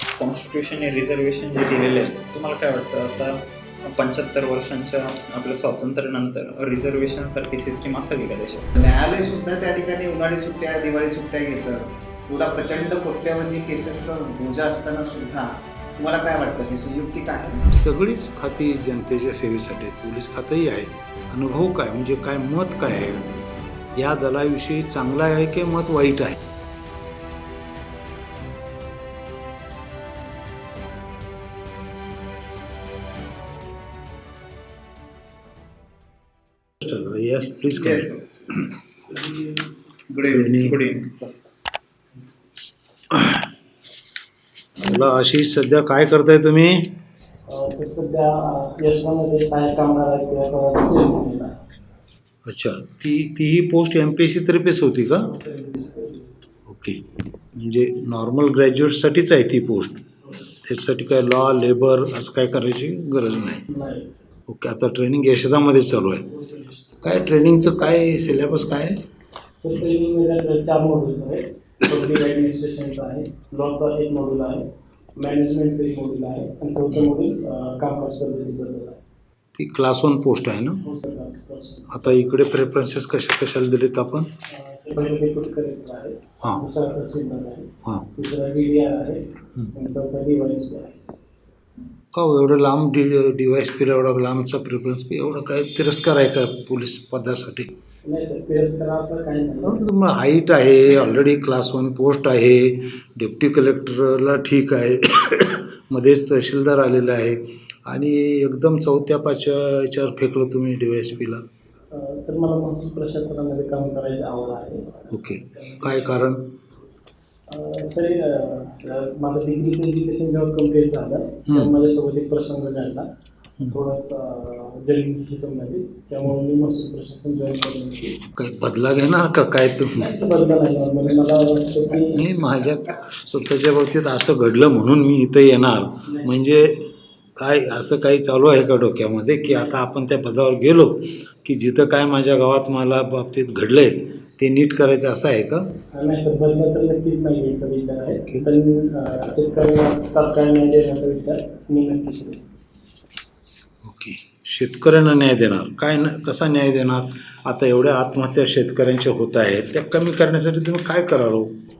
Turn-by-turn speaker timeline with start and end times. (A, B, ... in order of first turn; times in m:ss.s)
0:00.2-0:08.7 A
0:08.7-0:17.6 B
0:17.7-0:23.3 C
0:23.9-0:26.4 C
0:36.8-0:38.2 C
0:37.7-0:38.4 B
0:39.0-0:39.6 D
0:40.1-0:41.0 B
0:40.3-0:40.8 C
0:40.9-0:41.3 A
0:43.1-0:43.4 C
0:44.8-0:46.9 C
0:47.5-0:51.6 D
0:52.5-0:55.3 C
0:55.3-0:56.3 D
0:56.7-1:00.0 C
1:00.6-1:03.7 C
1:03.7-1:04.2 D
1:04.5-1:06.3 C
1:06.3-1:07.0 D
1:07.0-1:09.0 C
1:09.6-1:19.0 D
1:19.6-1:20.8 C
1:20.8-1:21.9 D
1:21.9-1:24.3 C
1:24.5-1:31.0 D
1:32.1-1:37.7 C
1:38.0-1:39.8 D
1:39.6-1:51.4 C
1:51.9-1:56.2 D
1:55.1-1:56.5 C
1:57.5-2:03.1 D
2:01.5-2:01.7 C
2:03.7-2:08.2 D
2:08.3-2:10.1 C
2:10.0-2:12.2 D
2:11.9-2:25.7 C
2:16.1-2:16.3 D
2:25.9-2:32.5 D
2:28.1-2:28.4 C
2:33.8-2:41.5 C